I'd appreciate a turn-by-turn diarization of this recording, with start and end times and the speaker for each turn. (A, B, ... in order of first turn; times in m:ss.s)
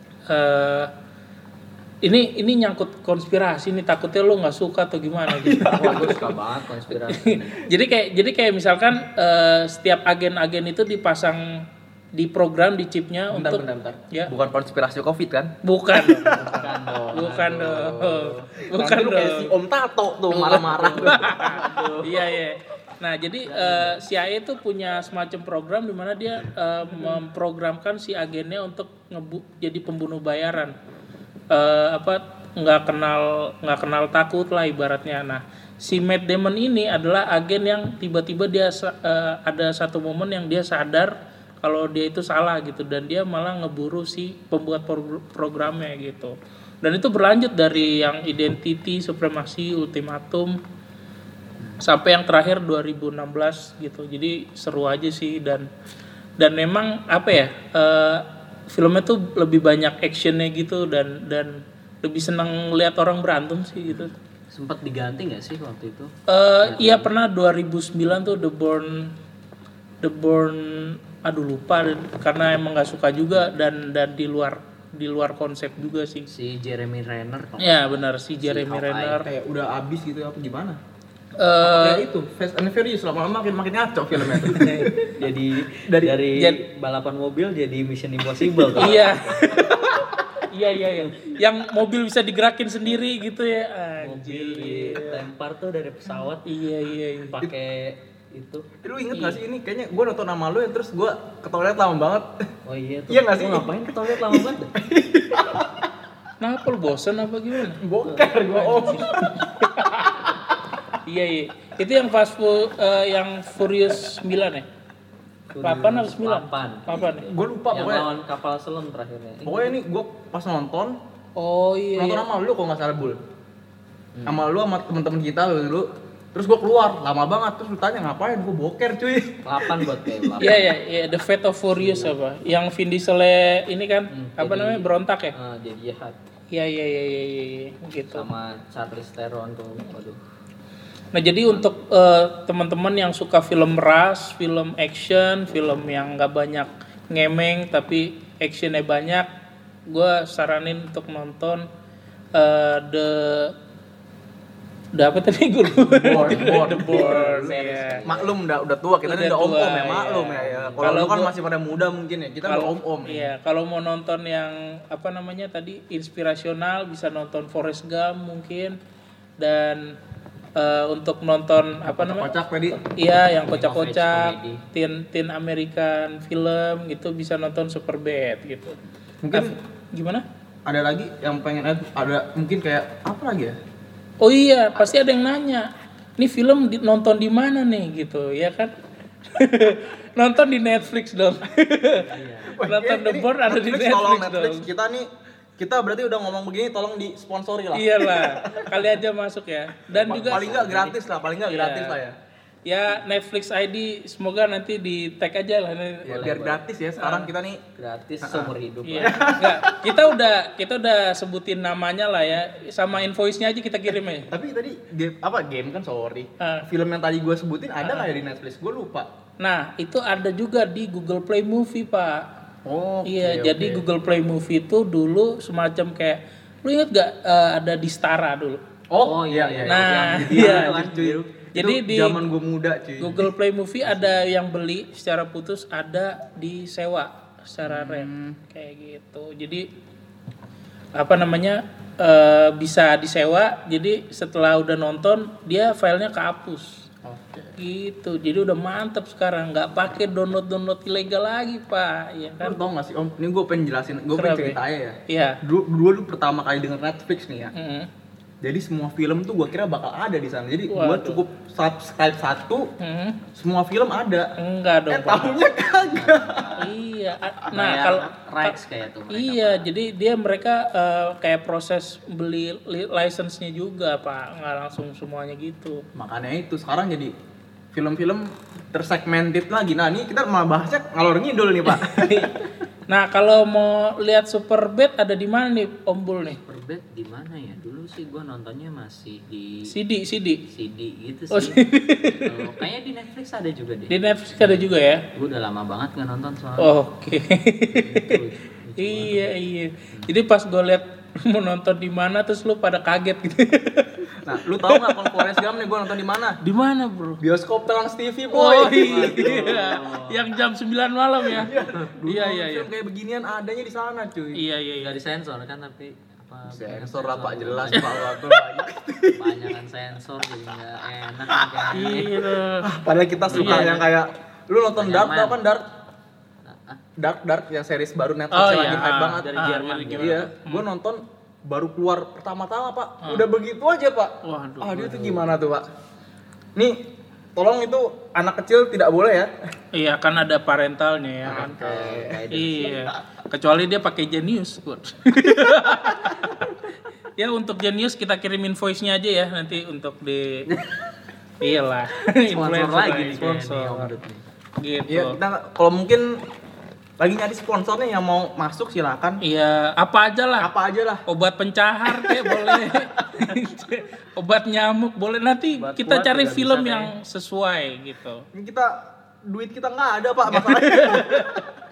0:00.3-0:00.9 A
0:02.0-0:06.4 A
0:05.3-0:06.4 B
0:05.6-0:07.6 C
0:07.1-0:11.6 A
0:12.2-0:14.3 A
0:13.3-0:17.1 B
0:15.6-0:19.5 A
0:16.2-0:18.5 C
0:17.7-0:21.6 B
0:20.3-0:30.7 A
0:20.8-0:22.2 C
0:23.4-0:24.0 C
0:26.9-0:27.2 C
0:31.5-0:50.5 A
0:51.8-0:55.7 A
0:56.4-1:04.1 A
1:03.9-1:06.1 C
1:06.3-1:09.1 A
1:06.6-1:07.1 C
1:10.0-1:16.3 A
1:16.3-1:19.2 C
1:17.6-1:19.3 A
1:19.2-1:20.8 B
1:21.4-1:22.0 A
1:21.6-1:25.1 B
1:24.3-1:25.0 A
1:25.2-1:29.6 C
1:25.8-1:26.2 B
1:28.7-1:35.2 A
1:34.0-1:36.4 C
1:36.4-1:37.4 A
1:37.3-1:38.7 C
1:38.8-1:42.3 B
1:39.1-1:39.4 A
1:42.7-1:44.7 C
1:43.1-1:45.9 B
1:46.4-1:47.8 A
1:47.8-1:50.2 B
1:48.4-1:50.2 A
1:51.0-1:54.7 A
1:55.5-1:59.8 C
1:55.6-1:57.3 A
1:57.3-1:58.1 B
1:59.4-2:01.0 B
2:01.4-2:02.3 A
2:02.0-2:03.2 B
2:04.2-2:04.5 C
2:04.3-2:10.5 B
2:09.4-2:10.7 C
2:10.4-2:15.3 A
2:11.8-2:12.2 C
2:14.1-2:16.2 C
2:16.5-2:18.3 A
2:18.1-2:20.2 C
2:21.1-2:29.3 A
2:29.9-2:31.6 A
2:32.4-2:33.5 A
2:35.0-2:38.0 A
2:35.8-2:43.3 B
2:36.2-2:38.4 C
2:39.0-2:41.3 A
2:40.0-2:41.0 C
2:42.4-2:48.8 A
2:49.4-2:49.8 A
2:50.6-2:58.8 A
2:51.8-2:52.8 B
2:53.4-2:54.6 C
2:59.2-2:59.6 B
2:59.3-3:00.2 A
3:00.7-3:03.6 B
3:04.2-3:05.7 A
3:06.2-3:08.7 A
3:09.3-3:14.7 A
3:12.0-3:12.6 C
3:12.5-3:15.1 B
3:15.6-3:18.8 B
3:17.7-3:20.9 A
3:19.9-3:22.2 B
3:20.0-3:20.9 C
3:21.4-3:22.0 A
3:22.6-3:26.2 A
3:26.1-3:27.6 B
3:26.1-3:26.6 C
3:27.0-3:27.3 A
3:27.8-3:29.2 C
3:28.2-3:29.8 B
3:28.8-3:34.3 A
3:34.3-3:39.1 B
3:36.4-3:36.7 A
3:37.8-3:38.1 A
3:39.4-3:42.2 A
3:42.6-3:43.8 B
3:43.1-3:48.6 A
3:48.9-3:53.2 B
3:49.0-3:51.3 C
3:49.7-3:50.9 A
3:51.5-3:52.2 A
3:53.0-3:59.7 A
3:53.8-3:54.1 C
3:57.6-3:58.4 B
4:01.0-4:06.8 A
4:07.0-4:07.6 B
4:07.6-4:12.6 A
4:12.4-4:17.5 B
4:14.1-4:14.6 A
4:15.1-4:15.4 A
4:17.5-4:17.9 A
4:18.4-4:22.7 B
4:20.7-4:21.2 A
4:22.8-4:23.2 A
4:23.4-4:24.3 B
4:24.4-4:25.4 A
4:24.9-4:26.6 B
4:25.8-4:26.7 C
4:26.6-4:28.6 A
4:27.5-4:29.7 C
4:29.1-4:35.8 A
4:36.0-4:37.1 B
4:37.7-4:42.2 B
4:41.7-4:46.4 A
4:46.3-4:49.7 C
4:49.7-4:50.4 A
4:50.5-4:51.6 C
4:51.3-4:52.6 A
4:52.1-4:56.8 C
4:53.9-4:55.0 A
4:56.6-4:58.2 A
4:57.7-4:59.3 C
4:58.8-5:04.1 A
5:04.2-5:06.4 B
5:04.6-5:05.3 A
5:06.4-5:07.2 A
5:07.2-5:09.7 B
5:08.3-5:11.5 A
5:08.8-5:10.3 C
5:11.3-5:14.4 B
5:11.4-5:11.7 C
5:12.0-5:12.7 A
5:14.4-5:15.0 A
5:14.8-5:18.2 C
5:16.5-5:19.4 B
5:17.7-5:18.0 A
5:19.1-5:22.1 C
5:21.3-5:22.0 B
5:21.7-5:22.7 A
5:22.6-5:25.6 B
5:23.3-5:23.9 C
5:23.3-5:23.8 A
5:24.8-5:25.4 C
5:26.4-5:26.8 C
5:27.0-5:29.3 B
5:28.3-5:30.6 A
5:28.5-5:30.3 C
5:29.9-5:35.7 B
5:34.2-5:35.0 A
5:34.9-5:35.3 C
5:37.4-5:39.3 B
5:39.7-5:41.6 A
5:41.2-5:42.2 B
5:41.2-5:42.9 C
5:42.3-5:46.6 A
5:47.2-5:50.4 A
5:50.5-5:50.9 C
5:51.4-5:54.0 A
5:52.3-5:54.2 C
5:54.6-5:55.2 A
5:54.9-5:56.2 B
5:57.0-5:59.2 B
5:59.2-6:00.5 A
6:00.4-6:01.0 B
6:01.1-6:08.2 A
6:01.9-6:02.7 B
6:05.6-6:06.9 C
6:05.7-6:06.4 B
6:08.3-6:08.7 B
6:09.3-6:11.4 B
6:10.3-6:11.4 A